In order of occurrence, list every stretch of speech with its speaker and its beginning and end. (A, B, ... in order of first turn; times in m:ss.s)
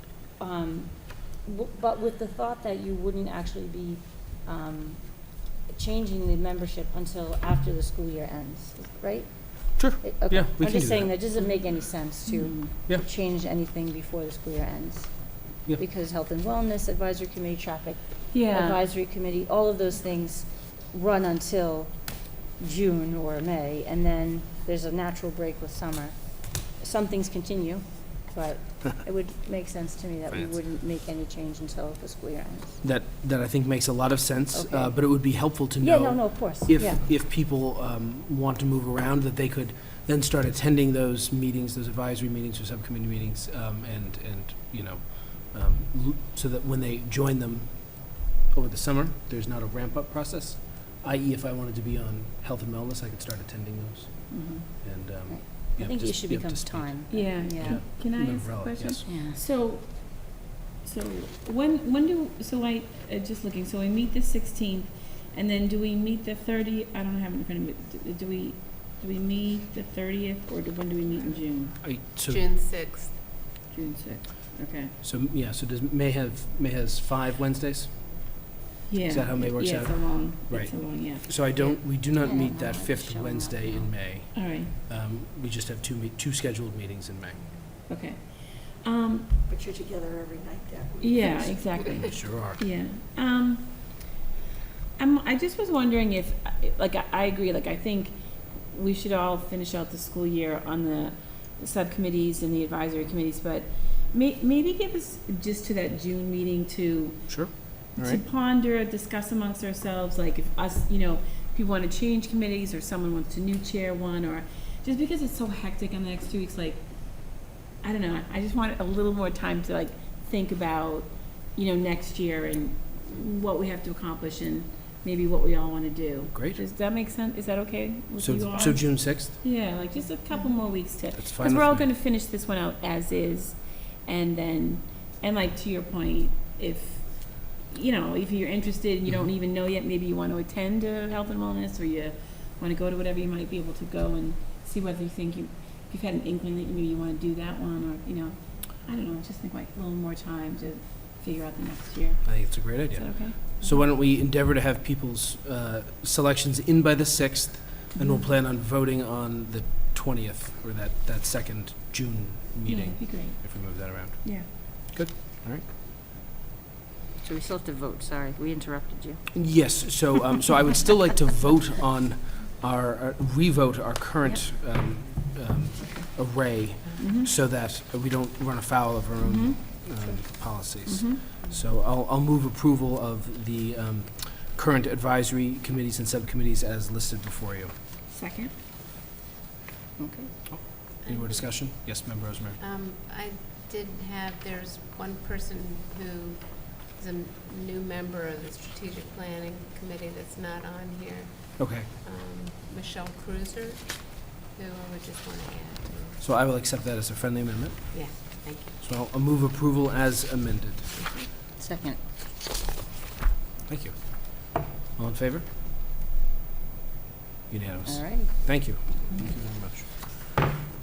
0:00.2-0:32.8 A
0:09.8-0:11.1 B
0:12.2-0:12.7 C
0:18.3-0:18.8 C
0:30.3-0:30.6 B
0:32.8-0:59.0 B
0:34.5-0:37.0 A
0:54.3-0:54.7 C
0:55.3-0:57.8 A
0:57.1-1:00.3 C
0:59.0-0:59.4 A
1:00.8-1:11.8 C
1:11.8-1:12.4 B
1:12.3-1:13.1 D
1:13.7-1:14.9 C
1:15.0-1:18.4 B
1:18.9-1:21.3 C
1:19.1-1:27.4 B
1:21.6-1:23.9 A
1:24.3-1:24.7 C
1:27.9-1:29.4 C
1:29.5-1:31.8 E
1:31.0-1:34.1 C
1:32.0-1:32.6 B
1:35.0-1:38.2 C
1:38.7-1:56.8 C
1:47.3-1:48.2 B
1:57.8-2:33.6 C
2:06.3-2:06.6 B
2:08.2-2:09.4 B
2:11.1-2:11.9 B
2:32.2-2:45.6 B
2:37.9-2:38.3 C
2:42.6-2:44.5 C
2:47.2-2:49.8 A
2:49.3-3:07.7 B
2:57.0-2:57.3 C
2:59.2-2:59.6 C
3:00.8-3:01.3 C
3:08.1-3:08.5 C
3:10.0-3:10.3 A
3:10.5-3:12.6 B
3:11.0-3:11.5 D
3:12.6-3:26.2 D
3:21.6-3:21.9 B
3:26.2-3:30.9 B
3:27.9-3:28.8 D
3:31.0-3:31.3 D
3:31.6-3:32.0 A
3:33.7-3:35.5 B
3:37.5-3:40.4 B
3:37.8-3:38.3 A